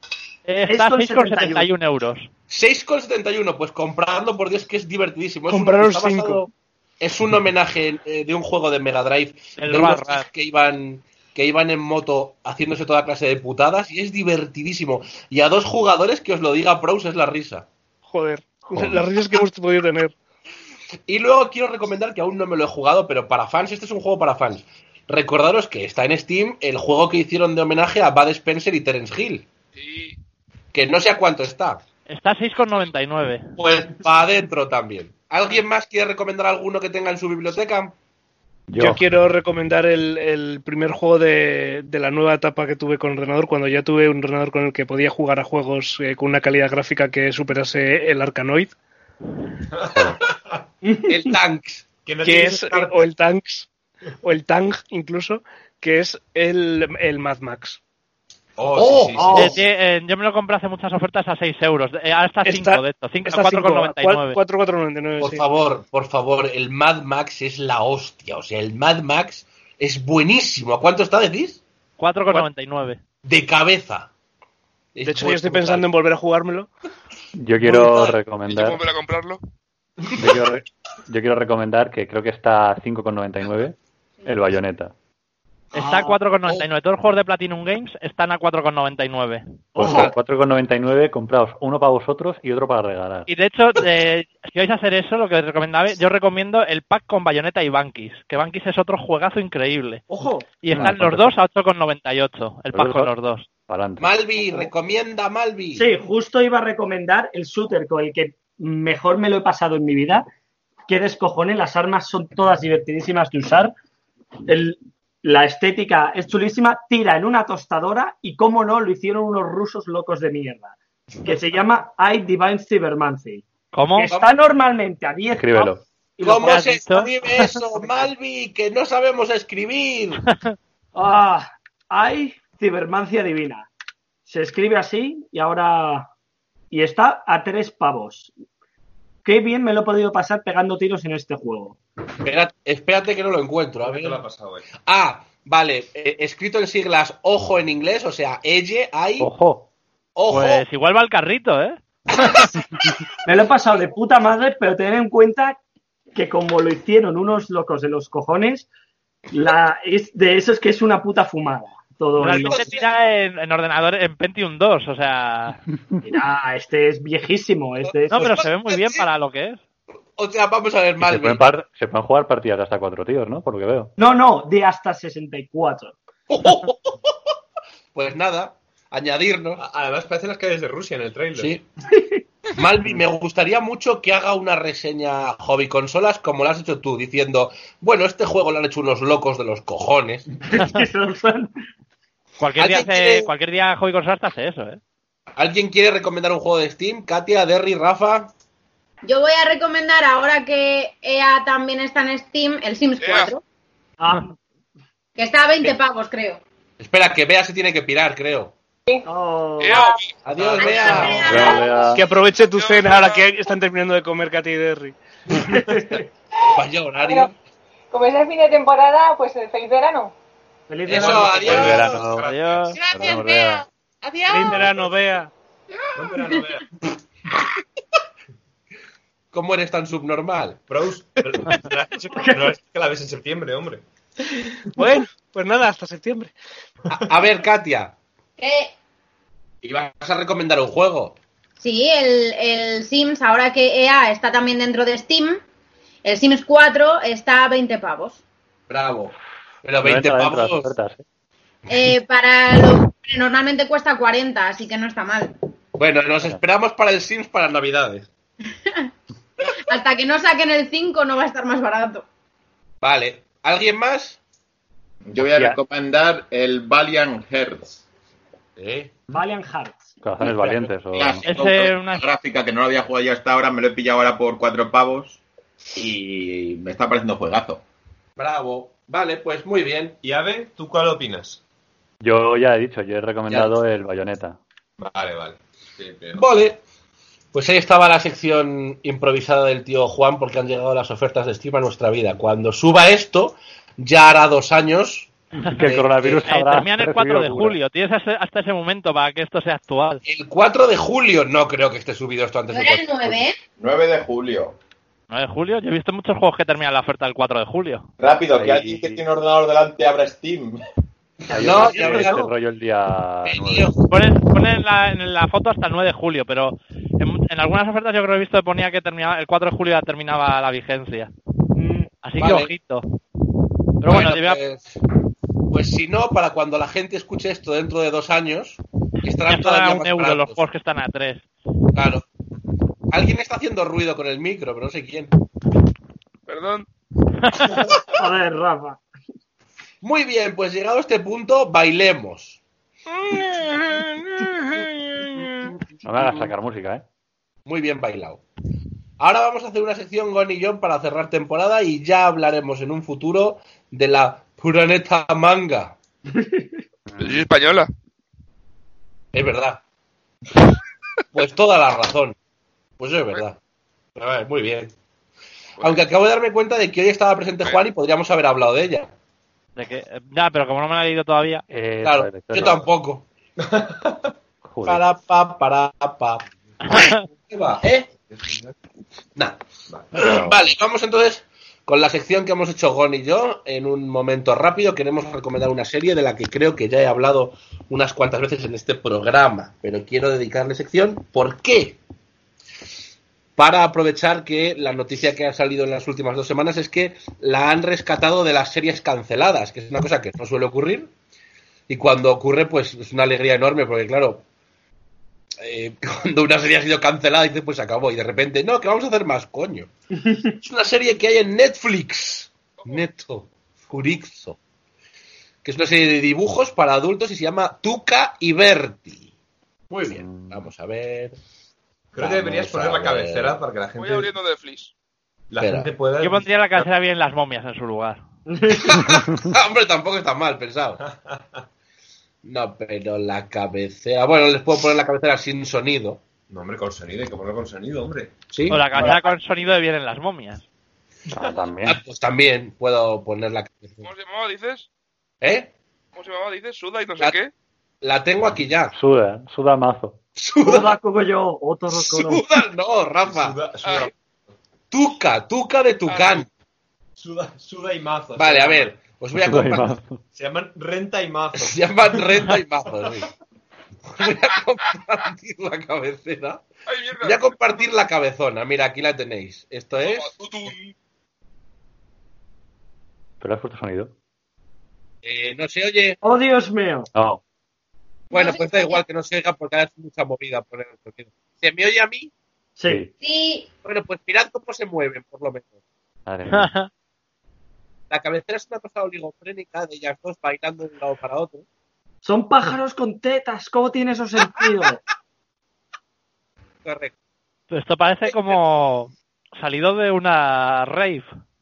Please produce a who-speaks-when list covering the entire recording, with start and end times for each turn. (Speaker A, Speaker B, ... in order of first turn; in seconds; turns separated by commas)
Speaker A: 0.5-2.3, Speaker B: 0.7-1.7, Speaker C: 2.5-6.4, Speaker D: 5.5-6.5, Speaker C: 7.0-17.7, Speaker A: 9.6-10.3, Speaker D: 18.1-20.1, Speaker C: 21.1-29.4, Speaker E: 29.8-30.1, Speaker C: 30.7-31.8, Speaker A: 32.1-33.5, Speaker C: 33.6-37.9, Speaker F: 38.7-39.0, Speaker D: 38.8-48.7, Speaker G: 49.7-50.6, Speaker B: 50.8-51.2, Speaker C: 51.1-51.8, Speaker G: 52.0-53.1, Speaker D: 52.2-53.7, Speaker D: 54.2-57.8, Speaker G: 58.6-59.6, Speaker C: 58.7-59.5, Speaker B: 59.1-59.6, Speaker A: 59.3-64.4, Speaker D: 62.4-65.4, Speaker C: 65.2-71.6, Speaker A: 72.0-73.0, Speaker C: 73.2-74.1, Speaker C: 74.9-75.9, Speaker D: 75.0-76.7, Speaker F: 77.3-78.8, Speaker E: 78.4-79.4, Speaker F: 80.2-84.9, Speaker A: 85.7-89.4, Speaker B: 85.8-86.2, Speaker F: 89.8-93.3, Speaker B: 89.8-90.1, Speaker C: 89.8-90.1, Speaker A: 93.3-100.0, Speaker B: 100.1-100.4, Speaker A: 100.6-103.5, Speaker F: 100.7-101.3, Speaker F: 102.7-103.1, Speaker F: 103.7-104.2, Speaker C: 104.0-105.9, Speaker B: 105.7-110.2, Speaker B: 110.9-113.7, Speaker B: 114.5-126.6, Speaker A: 123.7-124.1, Speaker F: 125.3-125.8, Speaker C: 126.2-130.3, Speaker A: 126.4-127.5, Speaker B: 127.8-128.1, Speaker B: 130.9-133.7, Speaker B: 134.2-136.1, Speaker B: 136.7-138.3, Speaker B: 139.2-141.8, Speaker C: 142.2-144.2, Speaker G: 143.8-144.6, Speaker C: 144.8-149.3, Speaker F: 149.2-149.7, Speaker C: 150.2-150.6, Speaker A: 150.3-152.5, Speaker B: 153.2-155.6, Speaker B: 156.1-158.7, Speaker B: 159.3-162.6, Speaker A: 162.2-165.6, Speaker C: 162.3-162.8, Speaker B: 166.1-168.4, Speaker A: 168.1-169.6, Speaker C: 168.1-169.1, Speaker C: 170.2-171.5, Speaker F: 171.0-173.9, Speaker B: 174.0-175.9, Speaker C: 176.3-177.1, Speaker C: 177.9-179.6, Speaker G: 179.6-181.5, Speaker C: 181.4-181.6, Speaker C: 182.5-190.3, Speaker B: 190.5-191.5, Speaker A: 192.4-194.8, Speaker C: 192.6-193.3, Speaker C: 195.3-198.3, Speaker H: 199.0-203.4, Speaker E: 203.0-203.3, Speaker B: 204.0-204.3, Speaker H: 205.2-206.4, Speaker C: 206.8-208.5, Speaker B: 209.1-209.8, Speaker E: 209.6-210.2, Speaker I: 209.7-210.0, Speaker C: 210.2-211.5, Speaker H: 210.6-211.9, Speaker F: 211.2-212.0, Speaker D: 211.9-214.9, Speaker E: 212.4-213.3, Speaker B: 215.4-216.1, Speaker C: 216.5-217.3, Speaker I: 217.0-217.3, Speaker I: 217.9-220.1, Speaker B: 220.7-221.8, Speaker C: 220.8-222.1, Speaker G: 220.9-222.5, Speaker F: 221.4-222.3, Speaker A: 221.6-222.8, Speaker H: 222.8-224.4, Speaker F: 222.9-223.6, Speaker D: 224.3-225.3, Speaker G: 225.9-226.7, Speaker C: 229.3-230.6, Speaker G: 230.7-233.8, Speaker B: 232.2-232.5, Speaker D: 234.8-236.3, Speaker C: 236.9-237.9, Speaker H: 238.4-238.7, Speaker C: 239.6-241.2, Speaker H: 241.6-245.4, Speaker H: 246.0-248.2, Speaker C: 248.7-250.7, Speaker F: 249.8-251.0, Speaker H: 251.7-255.3, Speaker C: 255.8-258.1, Speaker H: 259.6-262.0, Speaker C: 262.8-264.2, Speaker J: 265.1-267.8, Speaker F: 265.2-265.6, Speaker C: 268.6-268.9, Speaker B: 269.1-269.9, Speaker F: 270.0-271.2, Speaker J: 270.9-275.2, Speaker A: 271.2-272.0, Speaker J: 275.7-277.6, Speaker C: 278.2-279.9, Speaker G: 280.0-281.4, Speaker F: 282.0-284.4, Speaker G: 284.8-285.4, Speaker J: 285.8-286.1, Speaker C: 286.1-286.6, Speaker C: 287.3-296.2, Speaker F: 295.5-297.6, Speaker A: 296.3-300.0, Speaker C: 300.1-303.2, Speaker H: 302.5-303.4, Speaker J: 303.6-304.5, Speaker A: 305.1-307.9, Speaker J: 308.0-310.6, Speaker F: 308.3-309.0, Speaker F: 311.3-313.7, Speaker C: 311.3-312.2, Speaker B: 311.3-312.3, Speaker C: 313.2-313.9, Speaker A: 313.9-321.1, Speaker B: 321.5-321.9, Speaker A: 322.0-322.8, Speaker C: 322.2-322.5, Speaker A: 323.8-324.4, Speaker C: 323.9-324.6, Speaker C: 325.5-330.4, Speaker A: 329.3-331.2, Speaker C: 331.7-332.0, Speaker C: 332.9-335.1, Speaker E: 336.3-336.7, Speaker A: 337.2-337.6, Speaker B: 338.0-338.8, Speaker C: 339.8-342.4, Speaker E: 343.0-344.6, Speaker F: 345.8-346.8, Speaker C: 347.4-348.2, Speaker C: 349.0-355.7, Speaker B: 356.1-356.4, Speaker F: 356.9-357.2, Speaker E: 357.0-357.7, Speaker C: 359.1-359.6, Speaker C: 361.1-362.1, Speaker C: 362.8-363.4, Speaker C: 363.9-364.7, Speaker C: 365.6-368.9, Speaker A: 369.6-371.4, Speaker F: 371.5-372.7, Speaker C: 371.8-373.0, Speaker G: 373.4-374.1, Speaker F: 374.4-374.8, Speaker C: 374.6-377.9, Speaker A: 376.7-377.0, Speaker G: 378.1-378.5, Speaker G: 379.7-380.2, Speaker C: 379.9-391.8, Speaker C: 393.4-400.9, Speaker C: 401.7-404.2, Speaker C: 405.4-409.7, Speaker C: 410.4-414.4, Speaker C: 415.4-419.1, Speaker C: 419.7-421.1, Speaker F: 419.9-420.4, Speaker G: 421.9-424.1, Speaker C: 422.0-423.4, Speaker E: 423.8-424.7, Speaker G: 425.3-426.7, Speaker C: 425.4-425.7, Speaker A: 426.0-428.0, Speaker B: 428.3-428.8, Speaker C: 428.5-430.8, Speaker G: 430.8-431.2, Speaker C: 432.2-436.0, Speaker G: 436.3-438.2, Speaker C: 438.3-438.9, Speaker A: 438.5-440.4, Speaker F: 441.1-441.8, Speaker C: 441.6-443.9, Speaker E: 443.8-444.7, Speaker C: 445.2-445.5, Speaker E: 445.9-447.3, Speaker C: 447.8-448.7, Speaker F: 448.7-450.0, Speaker C: 450.2-450.7, Speaker B: 450.4-452.2, Speaker C: 451.7-453.4, Speaker G: 453.1-453.9, Speaker E: 453.6-453.9, Speaker C: 454.7-456.3, Speaker E: 455.9-456.2, Speaker G: 457.0-458.7, Speaker C: 458.1-459.8, Speaker F: 459.1-460.0, Speaker G: 460.1-462.4, Speaker C: 461.4-463.1, Speaker C: 463.9-466.4, Speaker E: 466.7-467.3, Speaker C: 467.0-470.1, Speaker E: 469.8-470.7, Speaker F: 473.2-473.9, Speaker C: 475.0-476.0, Speaker B: 476.0-476.9, Speaker F: 476.9-477.2, Speaker H: 478.1-478.8, Speaker C: 478.1-482.1, Speaker B: 482.6-482.8, Speaker H: 483.0-483.5, Speaker C: 483.6-485.5, Speaker F: 486.1-486.5, Speaker A: 486.3-486.7, Speaker C: 487.9-491.4, Speaker B: 492.0-494.8, Speaker C: 496.6-496.9, Speaker A: 497.5-501.1